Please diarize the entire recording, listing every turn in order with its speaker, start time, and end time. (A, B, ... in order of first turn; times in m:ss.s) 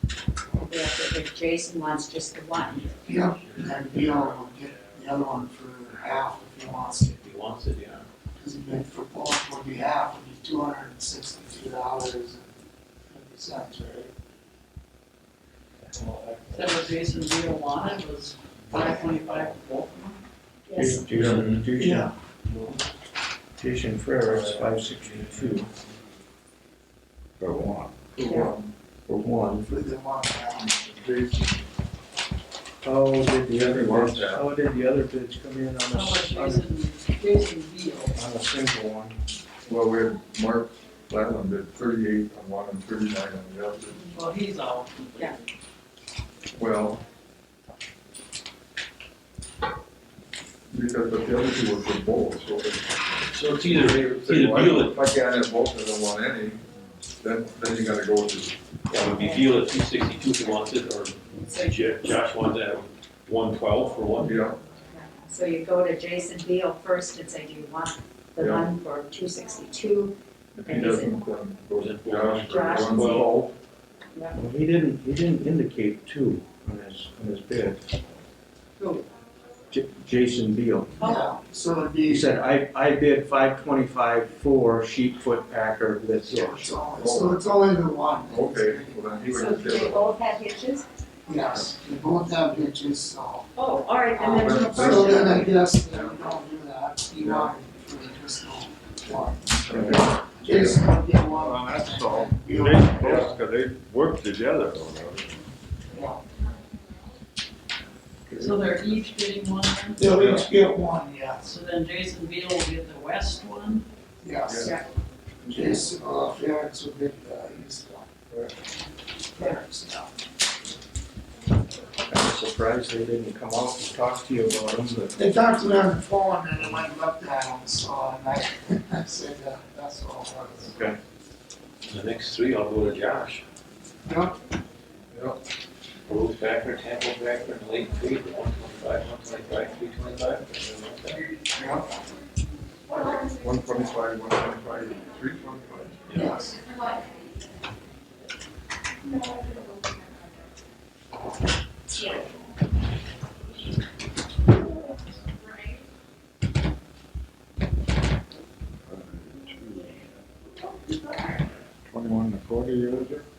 0:00.6-0:02.9 A
0:03.0-0:07.2 B
0:03.3-0:04.2 C
0:07.1-0:08.1 C
0:08.4-0:12.5 B
0:13.1-0:14.1 B
0:16.5-0:20.2 D
0:20.7-0:21.0 A
0:20.8-0:22.1 E
0:21.1-0:21.6 C
0:21.1-0:21.4 F
0:21.8-0:22.1 B
0:23.6-0:25.7 E
0:27.4-0:28.0 G
0:28.1-0:28.7 F
0:28.3-0:28.5 A
0:29.1-0:29.7 E
0:29.6-0:30.7 B
0:30.6-0:31.6 F
0:32.8-0:36.7 E
0:33.6-0:34.4 F
0:35.9-0:38.1 D
0:38.1-0:39.2 E
0:39.7-0:44.0 F
0:44.1-0:45.4 D
0:46.6-0:47.0 F
0:50.7-0:56.6 F
0:53.3-0:55.0 C
0:57.2-0:58.6 F
0:58.9-1:04.4 C
0:59.1-0:59.5 A
1:04.2-1:04.6 F
1:04.9-1:11.3 A
1:08.4-1:08.7 F
1:10.5-1:13.5 F
1:11.8-1:13.3 C
1:12.5-1:13.4 A
1:14.3-1:17.8 E
1:18.8-1:19.1 A
1:19.7-1:21.0 E
1:21.0-1:22.3 B
1:21.0-1:21.3 A
1:22.1-1:26.7 E
1:26.2-1:29.3 B
1:27.0-1:27.4 F
1:28.3-1:30.2 F
1:29.3-1:30.9 A
1:31.3-1:33.5 B
1:33.6-1:35.5 A
1:34.2-1:43.3 B
1:34.3-1:35.2 F
1:37.2-1:37.5 F
1:39.5-1:40.8 F
1:41.4-1:45.5 G
1:43.0-1:43.3 F
1:45.9-1:46.2 B
1:48.3-1:50.1 D
1:50.0-1:51.6 B
1:50.1-1:50.5 F
1:51.4-1:53.8 D
1:54.2-1:54.7 B
1:54.5-1:54.7 F
1:55.4-1:55.8 F
1:55.5-1:58.1 B
1:59.3-2:00.1 B
2:02.1-2:05.2 E
2:05.2-2:10.7 B
2:10.6-2:11.0 E
2:11.9-2:13.4 C
2:14.1-2:14.4 B
2:15.1-2:15.4 F
2:16.1-2:21.2 C
2:21.5-2:21.9 B
2:23.2-2:26.0 F
2:26.1-2:26.5 C
2:26.1-2:26.6 B
2:38.9-2:40.0 G
2:41.9-2:43.2 G